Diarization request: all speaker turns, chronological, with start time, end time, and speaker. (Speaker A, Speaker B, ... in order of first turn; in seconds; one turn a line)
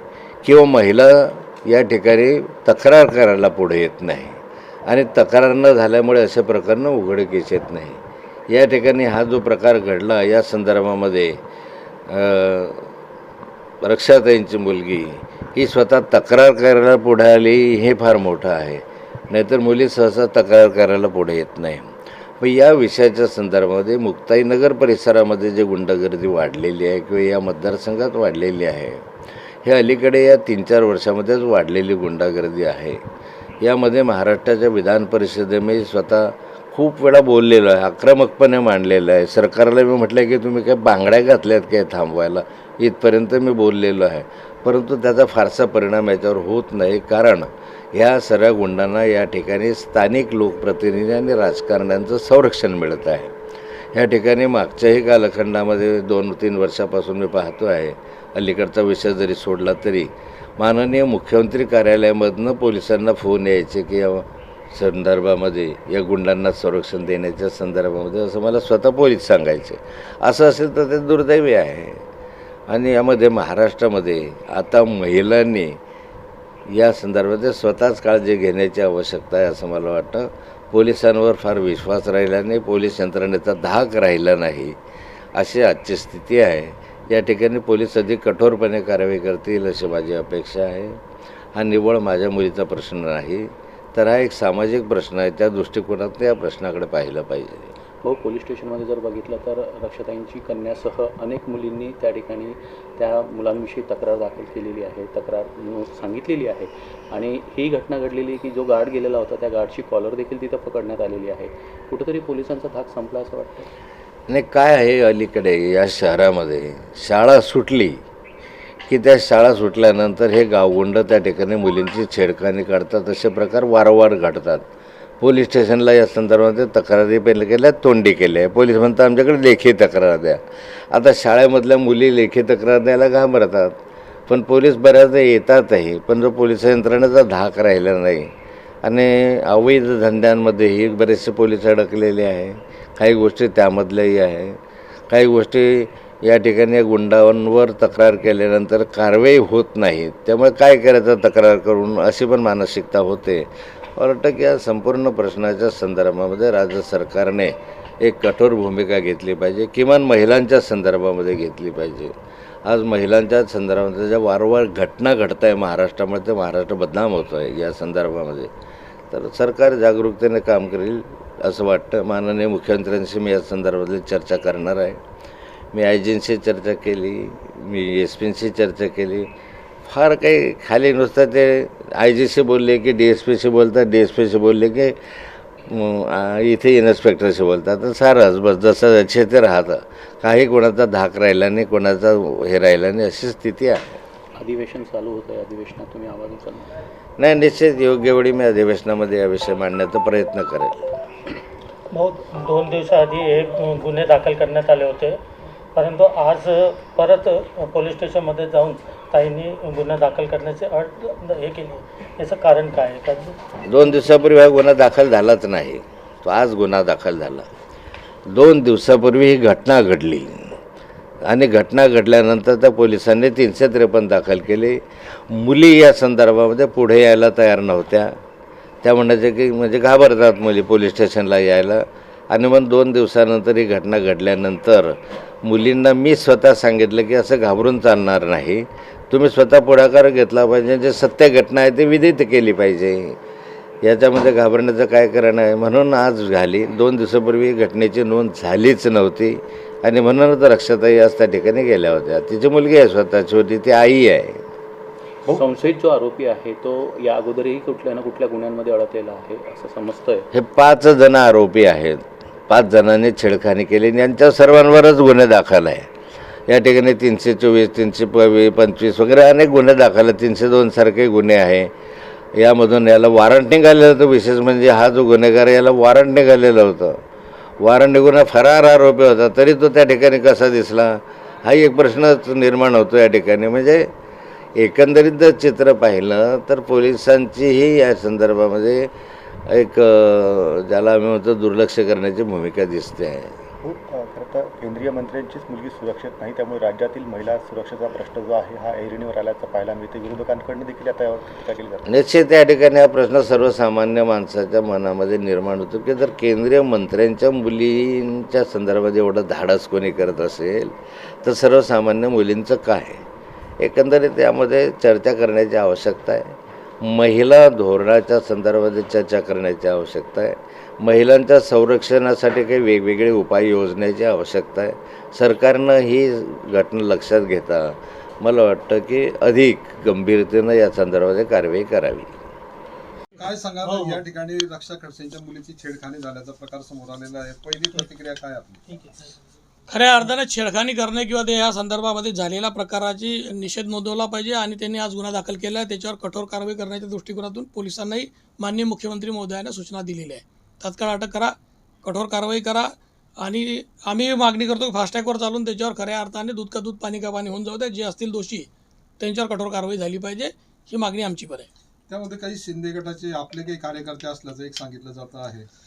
Speaker A: 0.4-8.0
Speaker A: 8.5-11.3
Speaker A: 12.1-12.9
Speaker A: 13.8-21.9
Speaker A: 22.4-29.0
Speaker A: 29.6-33.0
Speaker A: 33.6-53.3
Speaker A: 53.9-72.0
Speaker A: 72.7-75.7
Speaker A: 76.8-84.7
Speaker A: 85.3-91.0
Speaker A: 91.5-97.7
Speaker B: 98.0-113.7
Speaker A: 114.3-118.0
Speaker A: 118.9-124.6
Speaker A: 125.2-130.4
Speaker A: 130.9-133.7
Speaker A: 134.3-138.2
Speaker A: 138.8-144.5
Speaker A: 145.1-153.4
Speaker A: 154.0-162.1
Speaker A: 162.7-168.5
Speaker A: 169.1-175.0
Speaker A: 175.7-179.2
Speaker A: 179.9-184.9
Speaker A: 185.7-193.8
Speaker B: 194.3-196.8
Speaker A: 197.2-200.7
Speaker C: 201.9-205.2
Speaker C: 205.8-213.3
Speaker A: 213.6-217.5
Speaker A: 218.3-220.3
Speaker A: 221.3-224.8
Speaker A: 225.3-228.1
Speaker A: 228.8-234.9
Speaker A: 235.4-243.1
Speaker A: 243.8-254.4
Speaker B: 255.3-260.2
Speaker A: 260.3-265.9
Speaker A: 266.5-271.7
Speaker A: 272.4-276.9
Speaker A: 277.6-283.8
Speaker A: 284.6-288.8
Speaker A: 289.5-293.3
Speaker D: 293.6-301.9
Speaker A: 301.9-310.7
Speaker A: 311.2-313.0
Speaker A: 313.6-332.1
Speaker E: 333.1-338.6
Speaker C: 333.2-334.0
Speaker C: 338.7-339.2
Speaker F: 339.7-358.5
Speaker F: 359.0-361.5
Speaker E: 361.9-365.5